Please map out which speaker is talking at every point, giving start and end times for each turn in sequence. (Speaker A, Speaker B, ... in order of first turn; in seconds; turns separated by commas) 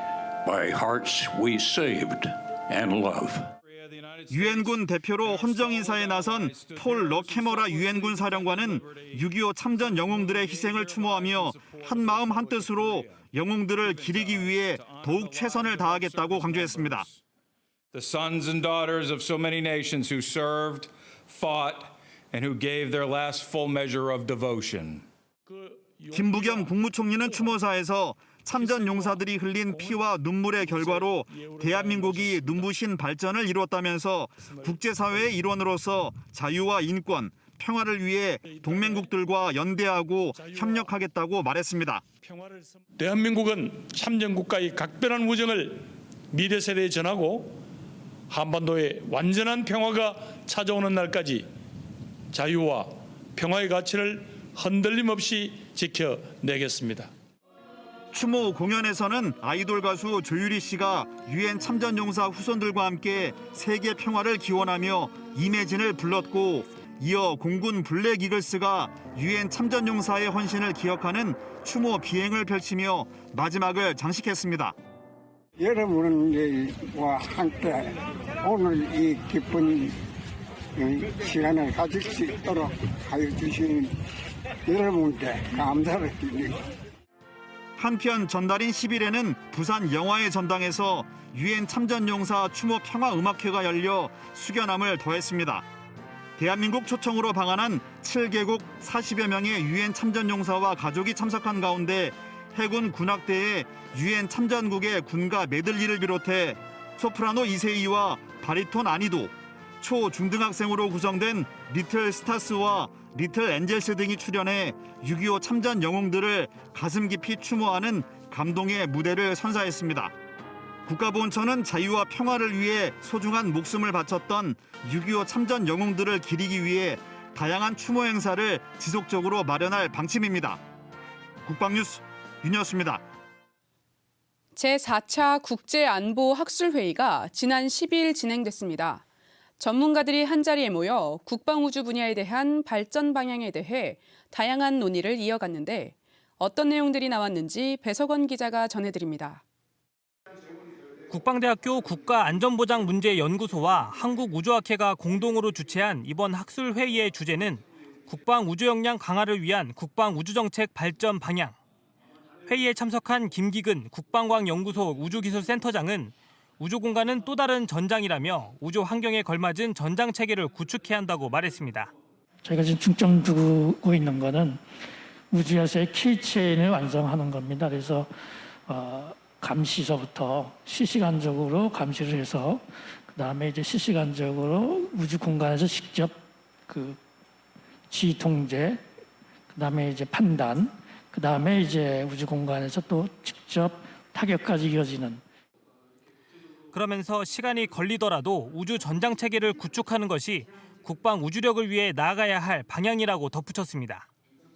Speaker A: 0.4-3.5, Speaker B: 3.6-9.2, Speaker C: 4.3-17.1, Speaker B: 9.8-13.2, Speaker B: 13.8-17.2, Speaker B: 17.9-25.0, Speaker D: 25.4-27.6, Speaker C: 26.1-42.0, Speaker D: 28.5-32.7, Speaker D: 34.4-35.3, Speaker D: 38.4-39.1, Speaker D: 40.3-40.9, Speaker D: 42.2-47.6, Speaker D: 48.3-51.5, Speaker D: 52.3-57.1, Speaker C: 58.1-74.7, Speaker E: 75.6-77.8, Speaker E: 78.4-79.9, Speaker E: 80.8-83.8, Speaker E: 84.7-86.5, Speaker C: 87.8-95.6, Speaker C: 96.4-120.1, Speaker C: 120.8-130.6, Speaker C: 131.4-133.0, Speaker F: 134.5-139.0, Speaker F: 139.6-149.4, Speaker G: 151.1-161.6, Speaker G: 162.5-171.9, Speaker H: 172.5-174.5, Speaker H: 175.3-178.0, Speaker H: 178.7-182.6, Speaker H: 183.2-186.1, Speaker H: 186.7-186.9, Speaker H: 187.9-188.7, Speaker H: 189.6-195.2, Speaker G: 196.7-204.1